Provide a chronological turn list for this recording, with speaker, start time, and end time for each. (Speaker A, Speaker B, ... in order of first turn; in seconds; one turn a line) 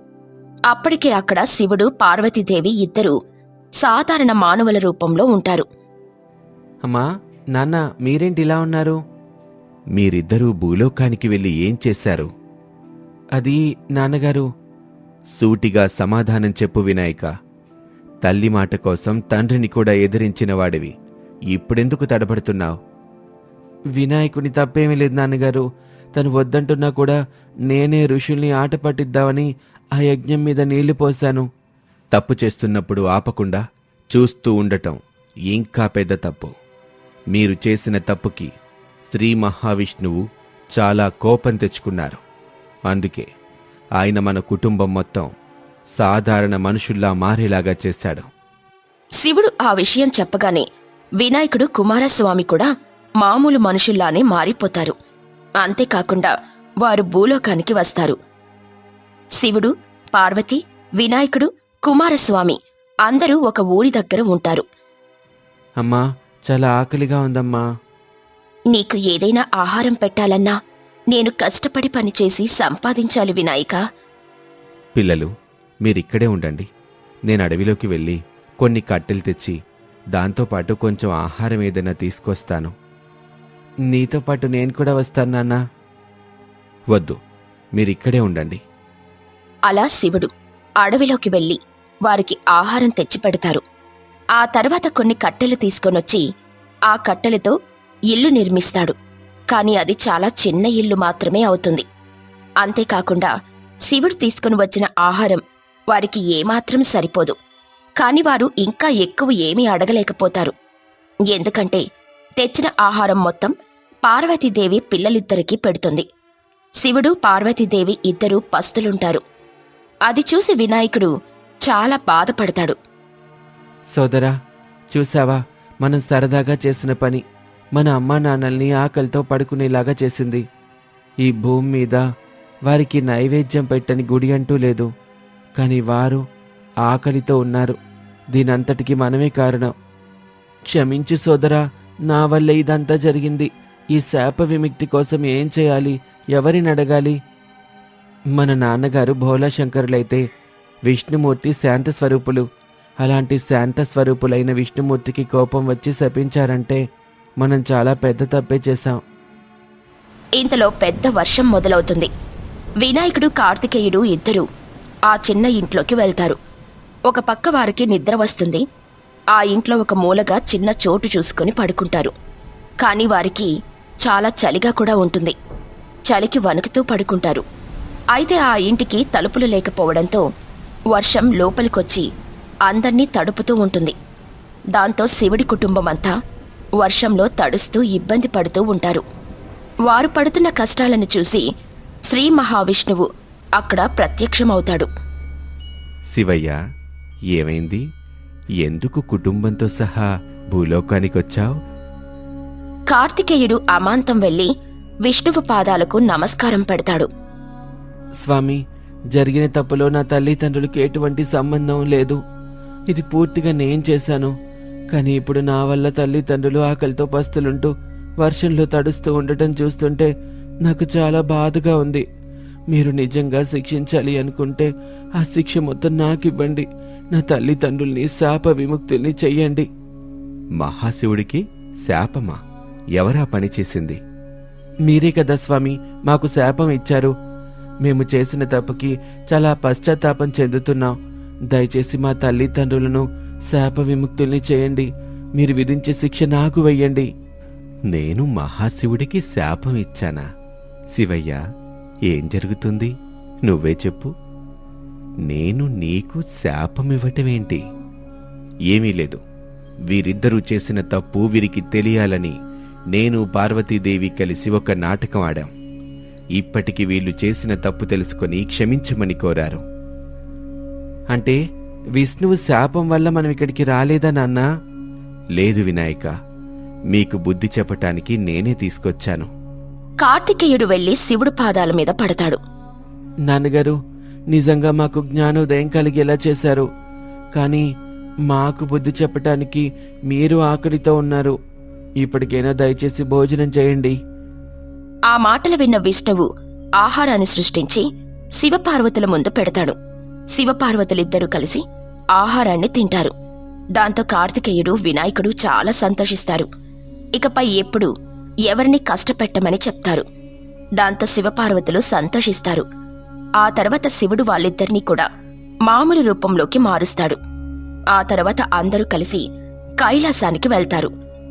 Speaker A: 0.7-3.1
Speaker A: 3.8-5.7
Speaker B: 6.9-9.0
Speaker B: 9.9-12.3
Speaker B: 13.4-14.5
Speaker B: 15.4-17.3
Speaker B: 18.2-20.9
Speaker B: 21.5-22.8
Speaker B: 24.0-25.6
Speaker B: 26.1-27.2
Speaker B: 27.7-29.5
Speaker B: 30.0-31.4
Speaker B: 32.1-33.6
Speaker B: 34.1-35.0
Speaker B: 35.5-36.5
Speaker B: 37.3-38.5
Speaker B: 39.1-40.2
Speaker B: 40.8-42.2
Speaker B: 42.9-43.3
Speaker B: 44.0-45.3
Speaker B: 46.0-48.3
Speaker A: 49.2-50.6
Speaker A: 51.2-52.7
Speaker A: 53.2-54.9
Speaker A: 55.6-58.2
Speaker A: 59.4-64.6
Speaker B: 65.8-67.6
Speaker A: 68.7-70.5
Speaker A: 71.1-73.8
Speaker B: 75.0-75.3
Speaker B: 75.8-76.7
Speaker B: 77.3-79.5
Speaker B: 80.1-82.7
Speaker B: 83.9-85.6
Speaker B: 86.9-87.2
Speaker B: 87.8-88.6
Speaker A: 89.7-93.6
Speaker A: 94.3-96.2
Speaker A: 96.9-97.5
Speaker A: 98.1-98.9
Speaker A: 99.5-101.8
Speaker A: 102.6-103.3
Speaker A: 103.8-107.3
Speaker A: 108.0-110.5
Speaker A: 111.3-111.8
Speaker A: 112.4-113.5
Speaker A: 114.0-116.0
Speaker A: 116.8-119.2
Speaker A: 120.1-121.1
Speaker A: 121.6-122.8
Speaker B: 123.9-124.3
Speaker B: 124.9-127.2
Speaker B: 127.8-130.4
Speaker B: 131.2-132.0
Speaker B: 132.7-134.9
Speaker B: 135.6-136.2
Speaker B: 136.9-137.8
Speaker B: 138.3-139.7
Speaker B: 140.7-147.2
Speaker B: 148.4-150.2
Speaker B: 150.9-152.4
Speaker B: 153.0-156.8
Speaker B: 157.4-159.0
Speaker A: 160.4-162.1
Speaker A: 162.8-164.4
Speaker A: 165.1-166.4
Speaker A: 167.1-168.6
Speaker A: 169.3-172.1
Speaker A: 172.8-173.5
Speaker A: 174.0-175.3
Speaker A: 176.1-177.4
Speaker A: 178.1-180.2
Speaker A: 180.9-182.1
Speaker A: 182.7-183.9
Speaker A: 184.7-186.1
Speaker A: 186.8-189.0
Speaker A: 189.9-191.4
Speaker A: 192.1-194.9
Speaker B: 196.1-196.6
Speaker B: 197.3-197.8
Speaker B: 198.6-201.5
Speaker A: 202.9-204.5
Speaker A: 205.0-207.1
Speaker B: 208.2-208.6
Speaker B: 209.1-212.2
Speaker B: 212.9-214.3
Speaker B: 214.9-220.1
Speaker B: 220.6-222.0
Speaker B: 222.7-229.7
Speaker B: 230.6-232.4
Speaker B: 233.0-234.0
Speaker B: 234.9-237.1
Speaker B: 237.8-240.9
Speaker B: 241.5-247.1
Speaker B: 247.9-250.2
Speaker B: 250.9-251.4
Speaker B: 252.1-252.9
Speaker B: 253.4-254.1
Speaker B: 255.3-257.6
Speaker B: 258.7-259.2
Speaker B: 259.9-262.3
Speaker B: 262.9-265.5
Speaker B: 266.4-269.6
Speaker B: 271.1-271.4
Speaker B: 272.0-274.4
Speaker B: 275.4-276.1
Speaker B: 276.9-279.3
Speaker A: 280.0-282.4
Speaker B: 283.3-283.8
Speaker B: 284.3-286.6
Speaker B: 287.4-287.6
Speaker B: 288.3-291.3
Speaker B: 292.0-293.9
Speaker A: 295.1-296.3
Speaker A: 296.8-297.9
Speaker A: 298.4-299.8
Speaker A: 300.3-301.6
Speaker A: 302.1-303.1
Speaker A: 303.8-306.5
Speaker A: 307.2-307.9
Speaker A: 308.5-310.0
Speaker A: 310.8-312.6
Speaker A: 313.4-315.1
Speaker A: 315.6-317.2
Speaker A: 317.9-319.2
Speaker A: 319.8-320.9